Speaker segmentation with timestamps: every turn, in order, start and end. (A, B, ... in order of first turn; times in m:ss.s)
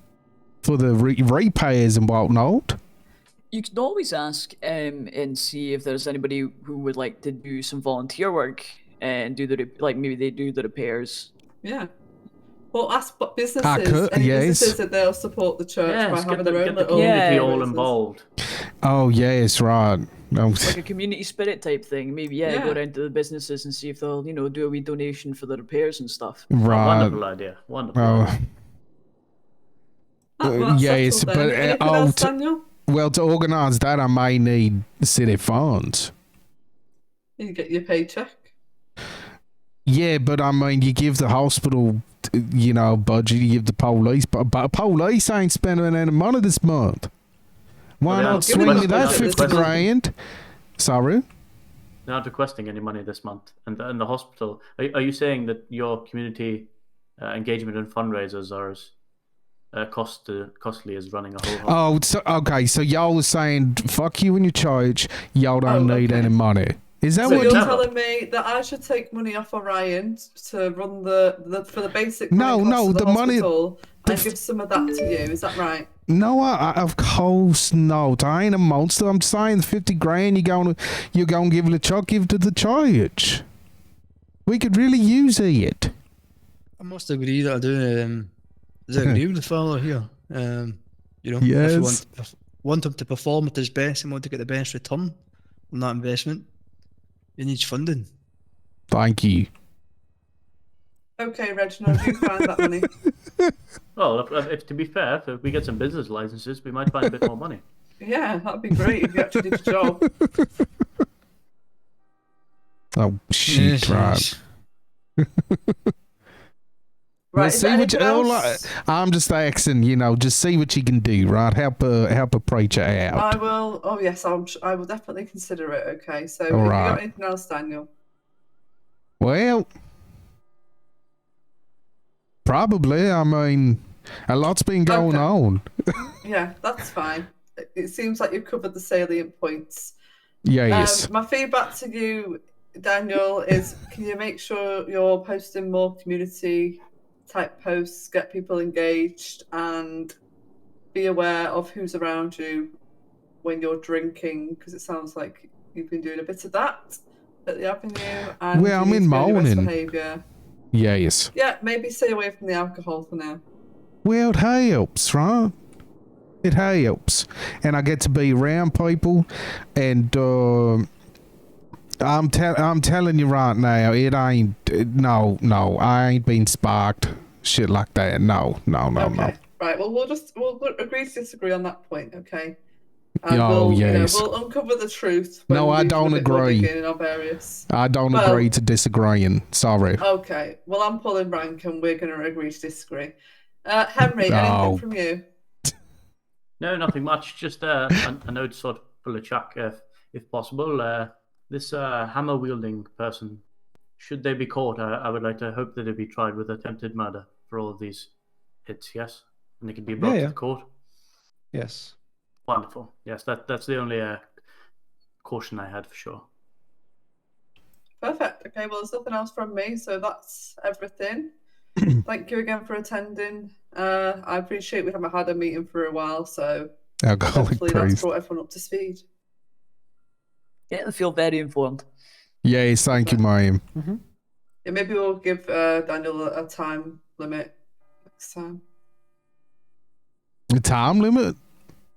0:00.6-0:02.8 A
0:03.5-0:11.3 B
0:11.6-0:11.9 C
0:12.7-0:17.9 C
0:13.6-0:14.8 A
0:15.8-0:18.2 D
0:16.9-0:17.6 B
0:18.8-0:20.8 A
0:20.6-0:26.5 B
0:22.4-0:22.8 C
0:26.5-0:27.2 A
0:26.6-0:28.3 D
0:28.0-0:28.4 A
0:30.4-0:32.7 C
0:30.4-0:32.3 A
0:32.9-0:36.1 A
0:37.4-0:38.4 C
0:39.8-0:47.1 A
0:48.0-0:50.1 A
0:48.1-0:49.8 D
0:48.2-0:49.8 C
0:50.8-0:51.2 A
0:52.0-0:58.9 D
0:59.7-1:01.8 D
1:01.6-1:07.8 A
1:05.7-1:06.3 C
1:07.2-1:15.9 C
1:07.2-1:07.9 D
1:12.3-1:13.5 A
1:16.1-1:23.4 A
1:24.5-1:25.9 A
1:26.8-1:28.3 E
1:28.9-1:35.2 E
1:31.4-1:32.0 A
1:35.7-1:36.5 E
1:37.4-1:38.1 E
1:38.9-1:39.5 A
1:41.2-1:42.9 C
1:44.0-1:47.6 D
1:48.0-1:50.1 C
1:53.0-1:54.3 A
1:53.5-1:54.4 E
1:55.2-1:55.7 A
1:57.3-1:58.7 C
1:57.3-2:03.4 A
2:03.1-2:07.9 C
2:06.5-2:07.0 A
2:09.2-2:09.7 A
2:12.4-2:15.7 A
2:14.9-2:15.3 C
2:16.2-2:19.9 C
2:20.4-2:21.1 A
2:20.7-2:30.1 C
2:30.9-2:32.7 C
2:33.4-2:40.2 C
2:38.5-2:39.7 A
2:40.7-2:41.3 A
2:41.3-2:43.4 C
2:44.0-2:45.5 A
2:46.4-2:50.9 A
2:52.0-2:59.3 A
2:58.9-3:02.6 C
3:03.2-3:08.5 C
3:03.3-3:04.3 A
3:05.5-3:06.7 A
3:07.7-3:10.0 A
3:10.0-3:15.2 C
3:14.2-3:14.8 A
3:16.6-3:23.4 D
3:24.0-3:28.1 D
3:28.7-3:30.7 D
3:30.0-3:30.3 E
3:31.5-3:31.9 E
3:32.5-3:34.2 D
3:35.2-3:36.2 D
3:38.0-3:41.3 C
3:42.0-3:46.7 C
3:47.0-3:48.1 A
3:47.3-3:49.0 C
3:50.7-3:51.8 B
3:52.4-3:53.6 A
3:52.9-3:53.2 C
3:54.6-3:57.5 C
3:58.2-3:58.6 C
4:00.5-4:01.4 A